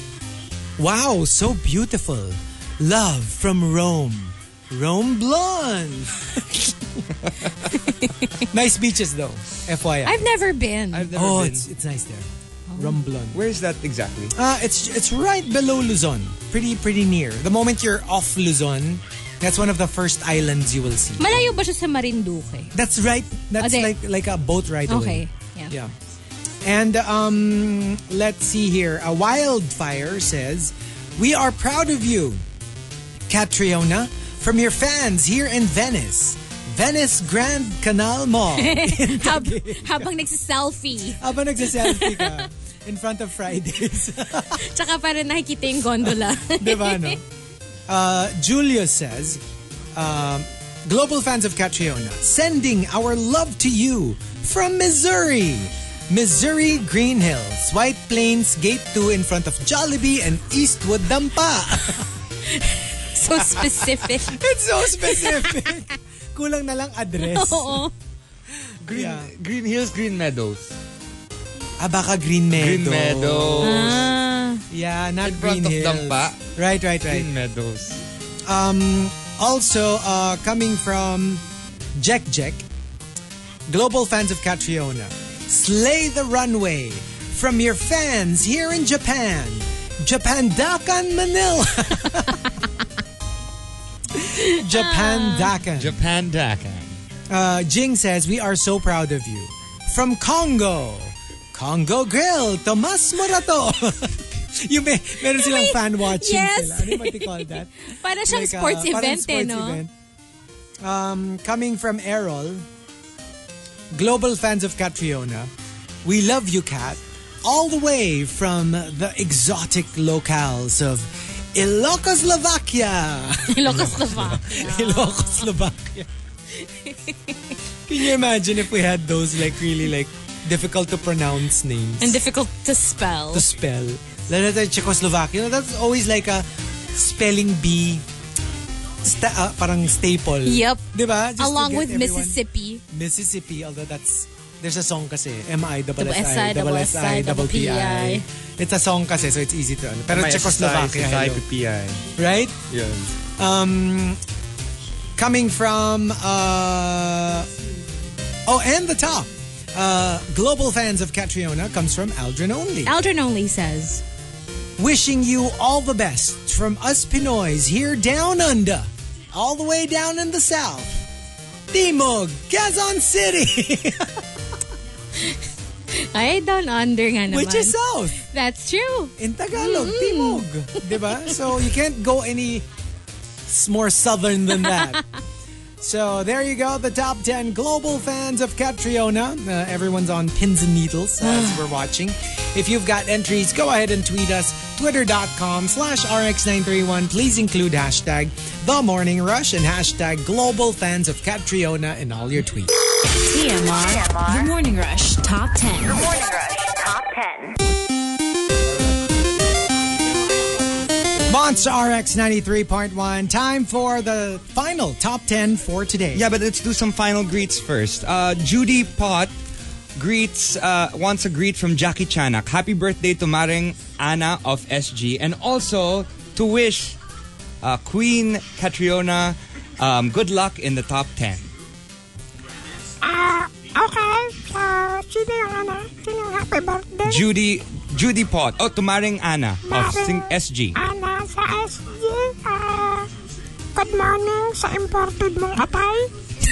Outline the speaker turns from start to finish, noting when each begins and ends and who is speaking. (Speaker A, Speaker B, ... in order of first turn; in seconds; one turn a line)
Speaker A: 0.8-7.0
Speaker A: 7.7-10.3
Speaker B: 10.0-11.1
Speaker C: 10.9-11.7
Speaker A: 11.1-13.4
Speaker B: 12.7-13.0
Speaker C: 13.3-14.3
Speaker A: 14.3-21.5
Speaker B: 21.2-22.7
Speaker A: 22.7-25.9
Speaker B: 23.6-23.9
Speaker B: 24.9-25.7
Speaker A: 26.6-32.4
Speaker A: 33.3-40.1
Speaker B: 38.5-42.5
Speaker A: 41.2-44.6
Speaker B: 44.5-47.1
Speaker A: 46.5-47.2
Speaker A: 47.9-49.4
Speaker A: 50.0-62.1
Speaker B: 62.5-65.7
Speaker A: 64.0-67.9
Speaker B: 67.2-67.9
Speaker A: 68.8-69.3
Speaker C: 68.9-70.8
Speaker A: 71.8-73.9
Speaker C: 72.5-74.1
Speaker B: 73.6-74.6
Speaker A: 74.7-77.3
Speaker C: 75.2-76.4
Speaker C: 77.0-78.0
Speaker A: 78.5-81.4
Speaker A: 82.0-82.7
Speaker A: 83.7-92.5
Speaker A: 94.1-96.0
Speaker B: 94.4-95.5
Speaker C: 95.8-96.9
Speaker A: 97.3-109.9
Speaker B: 105.4-109.8
Speaker A: 110.8-112.7
Speaker A: 113.9-115.5
Speaker A: 116.0-126.1
Speaker B: 123.5-125.5
Speaker B: 126.6-127.5
Speaker A: 127.9-132.2
Speaker B: 132.0-133.5
Speaker A: 133.3-138.0
Speaker A: 139.0-142.4
Speaker B: 140.4-140.8
Speaker B: 141.4-142.8
Speaker A: 142.9-151.4
Speaker B: 146.0-148.2
Speaker C: 150.1-152.1
Speaker A: 152.2-152.6
Speaker C: 152.7-153.1
Speaker A: 153.3-154.2
Speaker A: 155.2-157.5
Speaker A: 158.4-162.9
Speaker B: 162.8-164.0
Speaker A: 164.8-171.0
Speaker A: 171.7-174.2
Speaker B: 175.9-181.5
Speaker A: 177.3-178.2
Speaker A: 179.2-182.7
Speaker A: 183.4-185.0
Speaker B: 184.6-184.9
Speaker A: 185.8-202.7
Speaker B: 191.2-191.6
Speaker D: 203.1-206.2
Speaker A: 211.3-216.3
Speaker C: 216.1-219.3
Speaker C: 219.9-227.0
Speaker C: 227.6-231.5
Speaker E: 233.0-237.2
Speaker C: 237.0-240.8
Speaker E: 239.7-240.2
Speaker E: 240.7-243.1
Speaker E: 243.7-246.1